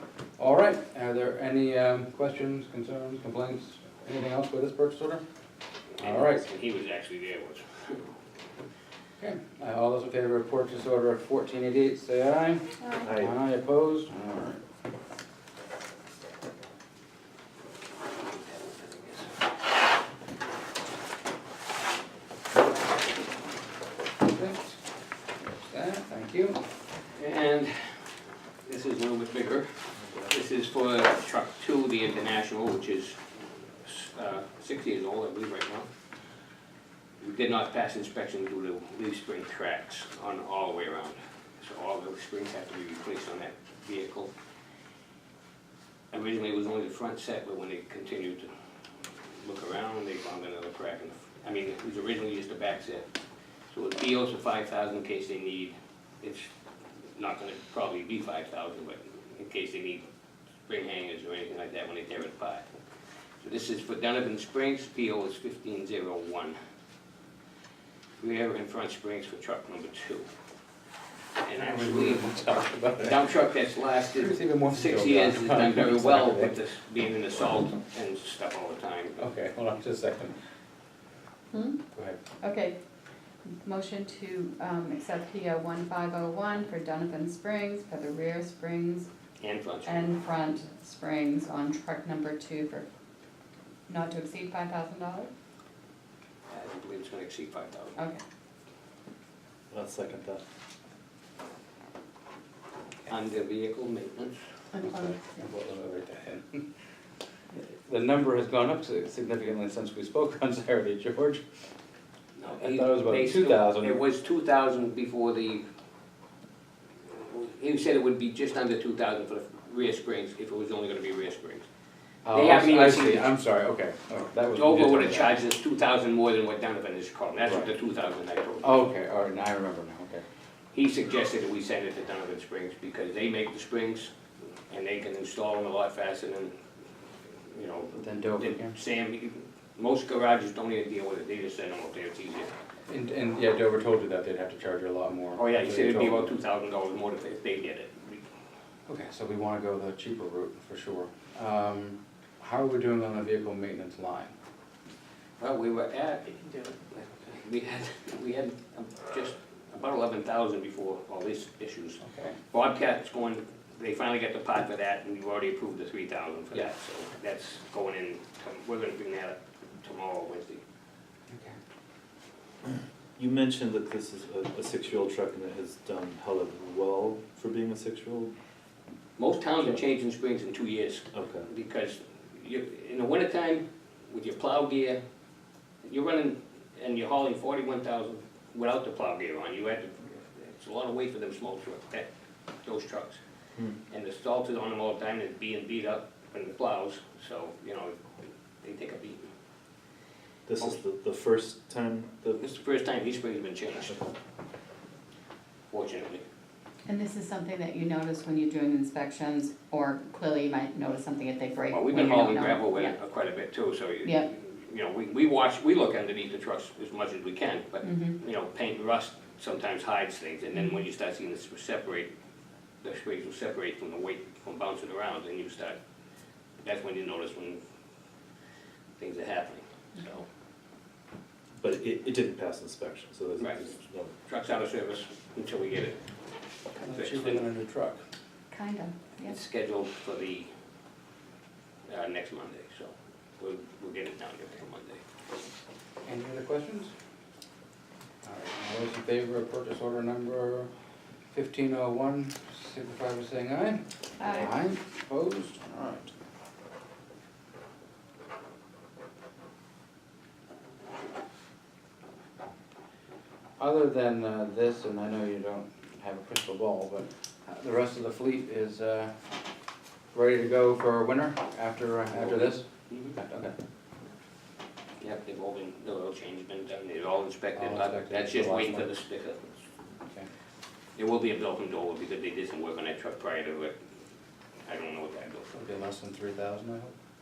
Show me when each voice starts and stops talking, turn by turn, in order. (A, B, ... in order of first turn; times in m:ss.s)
0:00.4-0:05.2 A
0:06.0-0:08.1 B
0:06.0-0:06.4 A
0:09.2-0:14.6 A
0:13.0-0:13.3 C
0:18.2-0:19.3 B
0:24.2-0:24.8 A
0:25.6-0:26.6 A
0:27.1-0:28.0 B
0:28.6-0:33.2 B
0:33.8-0:35.9 B
0:37.2-0:44.3 B
0:46.1-0:48.5 B
0:49.4-0:53.1 B
0:53.7-0:56.5 B
0:57.1-1:00.0 B
1:00.6-1:02.6 B
1:03.4-1:06.5 B
1:08.2-1:10.3 B
1:11.4-1:12.4 B
1:11.5-1:13.3 A
1:12.9-1:19.2 B
1:14.1-1:16.5 A
1:19.2-1:20.3 A
1:21.5-1:21.8 D
1:22.4-1:22.8 D
1:23.6-1:29.1 D
1:29.4-1:30.1 B
1:29.8-1:32.8 D
1:33.9-1:35.3 D
1:36.5-1:38.0 B
1:39.7-1:40.4 C
1:43.1-1:44.4 B
1:44.7-1:45.2 D
1:44.8-1:46.6 A
1:47.6-1:51.4 A
1:52.4-1:55.6 B
1:52.6-1:54.0 A
1:57.1-2:01.6 B
2:02.2-2:05.4 A
2:02.3-2:03.2 B
2:04.5-2:08.8 B
2:08.6-2:10.2 A
2:10.7-2:14.1 B
2:14.7-2:16.6 B
2:17.4-2:22.5 B
2:17.9-2:18.8 A
2:22.9-2:26.3 A
2:25.4-2:28.2 B
2:28.9-2:34.3 A
2:35.4-2:50.6 B
2:42.0-2:42.4 A
2:51.3-2:51.6 A
2:53.2-2:58.3 C
2:59.2-3:05.0 B
3:01.1-3:01.5 C
3:05.8-3:12.1 B
3:12.6-3:13.2 B
3:13.9-3:19.3 B
3:20.5-3:22.5 C
3:22.4-3:24.0 B
3:25.7-3:26.2 B
3:26.8-3:32.9 D
3:31.7-3:42.1 B
3:37.8-3:38.2 D
3:42.8-3:45.8 B
3:46.6-3:47.6 B
3:49.0-3:50.2 B
3:51.6-3:54.1 C
3:53.4-3:56.0 B
3:56.7-3:57.4 B
3:56.8-3:58.0 A
3:58.5-3:59.4 D
3:59.2-4:00.5 B
4:01.9-4:05.0 B
4:06.0-4:06.9 A
4:08.2-4:10.7 A
4:11.3-4:16.1 A
4:14.2-4:14.5 D
4:23.6-4:29.1 A
4:30.1-4:33.5 A
4:32.1-4:33.2 B
4:35.0-4:39.6 B
4:37.5-4:38.9 A
4:41.0-4:43.7 B
4:44.6-4:45.6 B
4:45.5-4:46.9 A